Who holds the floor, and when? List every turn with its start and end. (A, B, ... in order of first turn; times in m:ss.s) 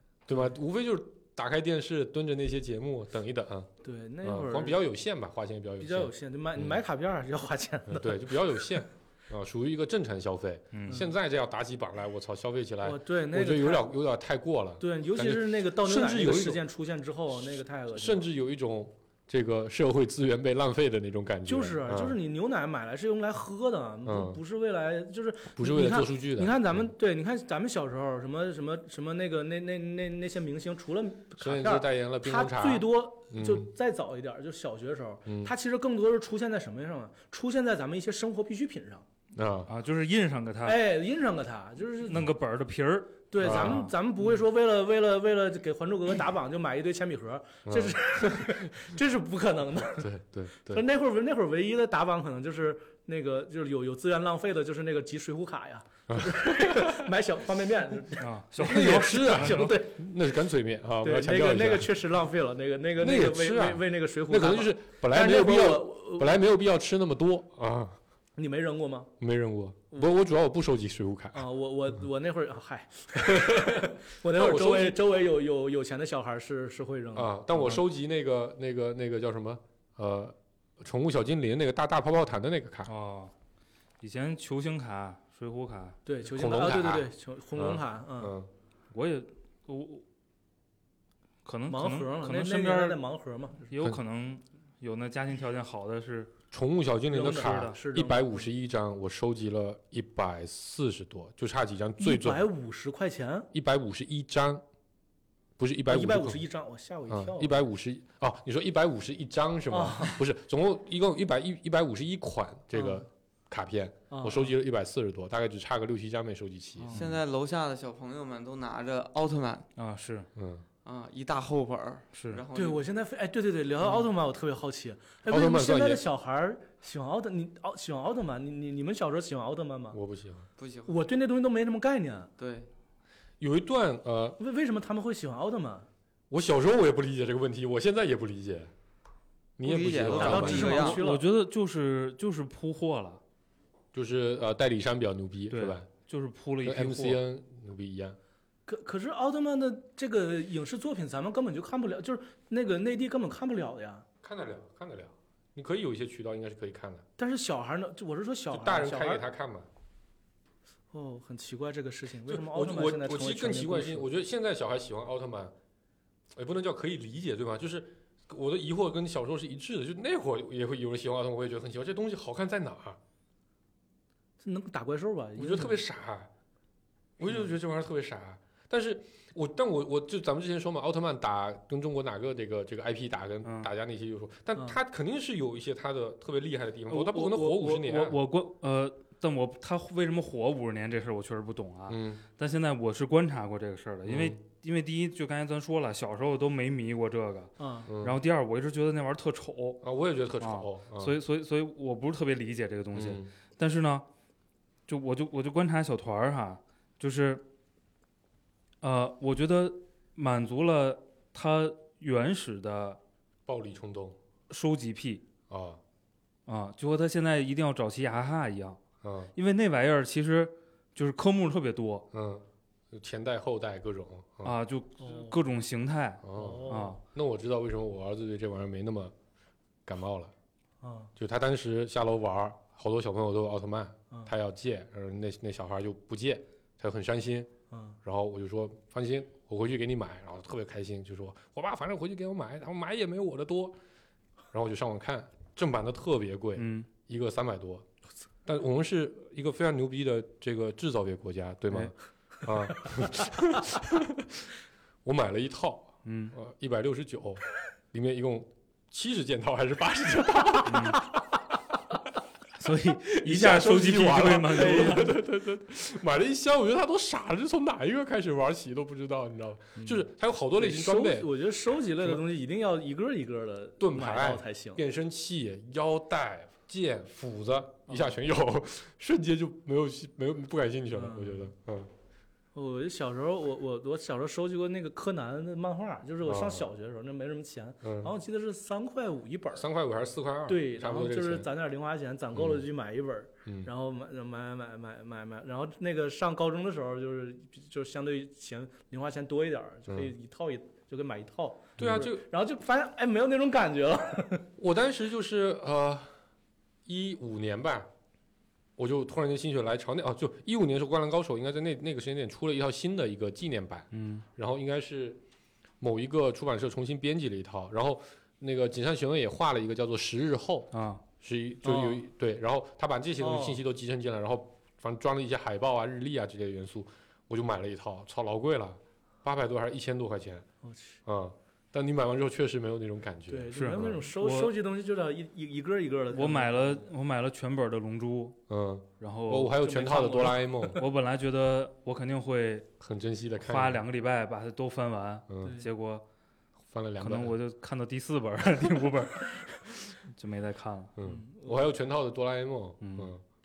0:00.3-0:03.7 A
0:03.8-0:04.8 B
0:04.2-0:06.8 A
0:05.8-0:08.7 B
0:07.9-0:16.6 A
0:10.7-0:11.1 C
0:12.8-0:13.9 B
0:14.8-0:18.2 B
0:17.9-0:22.2 A
0:21.5-0:39.1 B
0:24.0-0:24.4 A
0:25.6-0:26.9 A
0:31.4-0:33.7 A
0:35.3-0:35.5 A
0:39.3-0:39.7 A
0:39.7-0:40.8 C
0:40.6-0:42.2 B
0:42.1-0:43.9 C
0:43.3-0:50.1 B
0:43.4-0:43.9 A
0:47.7-0:48.6 A
0:50.0-0:50.8 A
0:50.7-1:00.0 B
0:56.1-0:57.1 A
0:58.2-0:59.8 C
0:58.6-1:02.0 A
1:01.0-1:06.4 B
1:03.0-1:08.0 A
1:08.4-1:09.1 B
1:09.2-1:11.5 A
1:11.3-1:17.8 B
1:13.2-1:15.0 A
1:17.2-1:22.9 A
1:22.9-1:23.3 C
1:24.0-1:26.0 C
1:26.1-1:28.3 B
1:26.3-1:28.5 A
1:28.9-1:30.0 C
1:31.4-1:33.0 C
1:31.7-1:33.7 B
1:33.7-1:36.3 C
1:36.5-1:42.5 A
1:37.1-1:38.5 B
1:37.2-1:37.8 C
1:42.0-1:43.5 B
1:43.5-1:44.6 A
1:45.6-1:46.4 A
1:45.9-1:47.6 B
1:47.1-1:57.0 A
1:49.7-1:50.2 B
1:52.7-1:53.1 B
1:54.1-1:54.5 B
1:56.8-1:57.0 B
1:56.9-1:59.7 D
1:56.9-1:57.2 C
1:59.8-2:00.3 C
2:00.4-2:00.6 A
2:00.8-2:02.8 D
2:02.1-2:02.4 C
2:02.5-2:10.0 B
2:05.3-2:06.0 A
2:09.9-2:10.5 A
2:10.6-2:11.0 D
2:10.9-2:12.3 B
2:12.4-2:12.7 D
2:13.4-2:14.4 A
2:14.4-2:15.9 B
2:16.3-2:18.7 A
2:19.6-2:20.9 A
2:19.6-2:21.0 D
2:20.1-2:21.3 B
2:20.3-2:23.2 C
2:23.9-2:25.9 A
2:25.5-2:27.2 C
2:26.6-2:28.2 A
2:28.7-2:34.1 B
2:34.2-2:37.0 A
2:37.2-2:39.3 B
2:38.5-2:39.7 A
2:40.9-2:44.1 B
2:42.3-2:45.5 A
2:46.3-2:53.0 A
2:54.4-2:55.8 B
2:55.4-2:56.3 A
2:57.2-3:08.2 A
3:03.4-3:03.7 C
3:06.9-3:19.8 C
3:11.9-3:12.2 A
3:14.1-3:14.4 A
3:17.6-3:17.9 B
3:17.9-3:18.2 A
3:19.8-3:21.2 A
3:20.4-3:24.0 C
3:22.9-3:23.3 A
3:24.9-3:27.4 C
3:28.8-3:33.0 C
3:33.5-3:34.2 A
3:34.5-3:35.2 C
3:35.5-3:35.8 A
3:36.5-3:38.8 C
3:39.0-3:39.3 A
3:39.4-3:42.1 C
3:42.1-3:44.6 A
3:44.4-3:47.0 C
3:45.0-3:45.4 B
3:46.2-3:49.1 A
3:46.4-3:47.0 B
3:49.9-3:50.3 A
3:50.8-3:51.1 B
3:51.2-3:57.5 A
3:57.7-3:58.0 B
3:58.0-4:03.8 A
4:04.5-4:07.9 A
4:06.6-4:06.9 C
4:08.4-4:14.5 A
4:15.0-4:21.3 A
4:16.0-4:16.4 C
4:20.6-4:21.0 C
4:22.6-4:25.2 C
4:23.0-4:31.3 A
4:24.4-4:25.1 B
4:29.8-4:34.8 B
4:33.8-4:41.9 A
4:40.9-4:41.5 B
4:42.6-4:49.7 B
4:46.2-4:46.7 A
4:47.8-4:48.1 A
4:49.5-4:51.5 A
4:50.5-5:04.5 B
4:52.4-4:52.6 A
5:01.8-5:02.3 A
5:04.6-5:06.1 A
5:06.9-5:07.9 A
5:08.8-5:15.2 A
5:13.9-5:14.2 C
5:15.8-5:30.4 A
5:20.7-5:21.0 C
5:21.6-5:22.0 B
5:23.2-5:23.6 B
5:30.6-5:31.0 B
5:31.1-5:34.0 A
5:33.3-5:36.9 B
5:33.5-5:34.5 C
5:36.1-5:38.4 C
5:38.5-5:40.8 A
5:39.0-5:42.7 C
5:42.8-5:43.8 A
5:43.4-5:46.0 C
5:45.4-5:45.7 B
5:46.7-5:47.4 A
5:47.0-5:51.0 C
5:51.0-5:53.2 A
5:51.0-5:51.9 B
5:52.8-5:53.1 C